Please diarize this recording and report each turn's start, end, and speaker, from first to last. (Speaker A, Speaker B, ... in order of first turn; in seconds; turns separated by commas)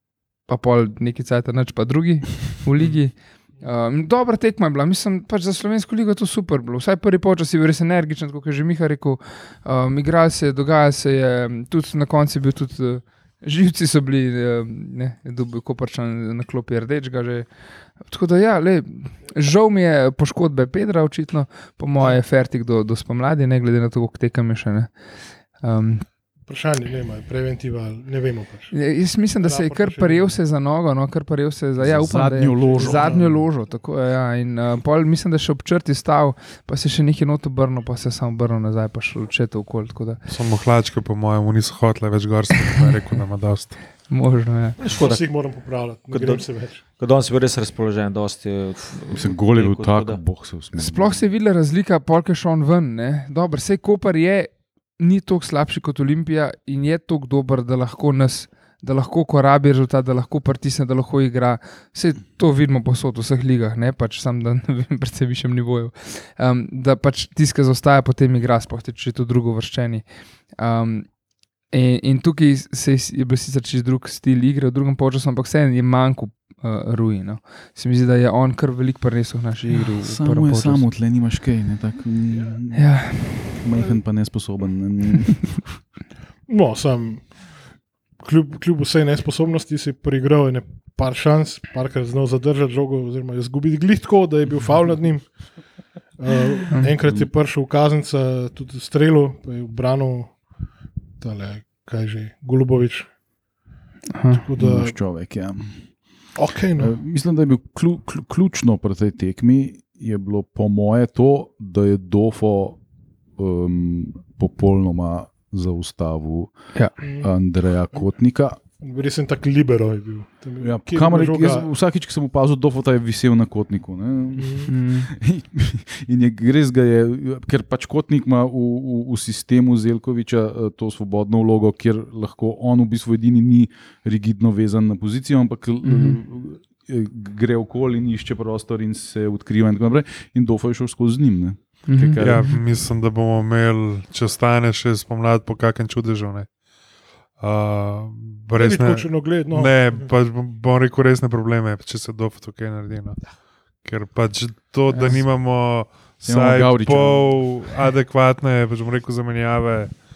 Speaker A: 0.5-17.5, Speaker A: 18.0-24.9, Speaker A: 25.6-26.1, Speaker B: 26.5-28.8, Speaker A: 28.7-40.2, Speaker B: 29.4-30.4, Speaker C: 31.8-33.5, Speaker B: 32.6-33.3, Speaker D: 40.3-43.8, Speaker A: 44.1-44.8, Speaker E: 44.8-45.3, Speaker B: 44.9-46.8, Speaker E: 46.1-50.2, Speaker C: 49.1-51.3, Speaker A: 50.8-70.0, Speaker A: 70.6-71.1, Speaker A: 71.7-80.9, Speaker C: 80.0-85.7, Speaker A: 82.7-83.5, Speaker B: 86.5-87.4, Speaker B: 88.2-95.3, Speaker B: 96.2-100.4, Speaker B: 101.2-103.1, Speaker A: 104.1-104.4, Speaker B: 104.3-105.0, Speaker C: 104.6-105.8, Speaker B: 106.3-106.9, Speaker C: 106.8-112.8, Speaker C: 113.4-116.5, Speaker B: 117.0-117.3, Speaker C: 117.0-118.6, Speaker B: 118.8-121.7, Speaker C: 120.6-142.6, Speaker B: 124.4-124.7, Speaker A: 124.7-125.1, Speaker A: 135.8-136.2, Speaker A: 141.9-142.6, Speaker D: 142.2-146.5, Speaker D: 147.4-153.2, Speaker B: 148.6-150.0, Speaker D: 153.8-160.0, Speaker A: 154.9-155.2, Speaker C: 156.2-157.6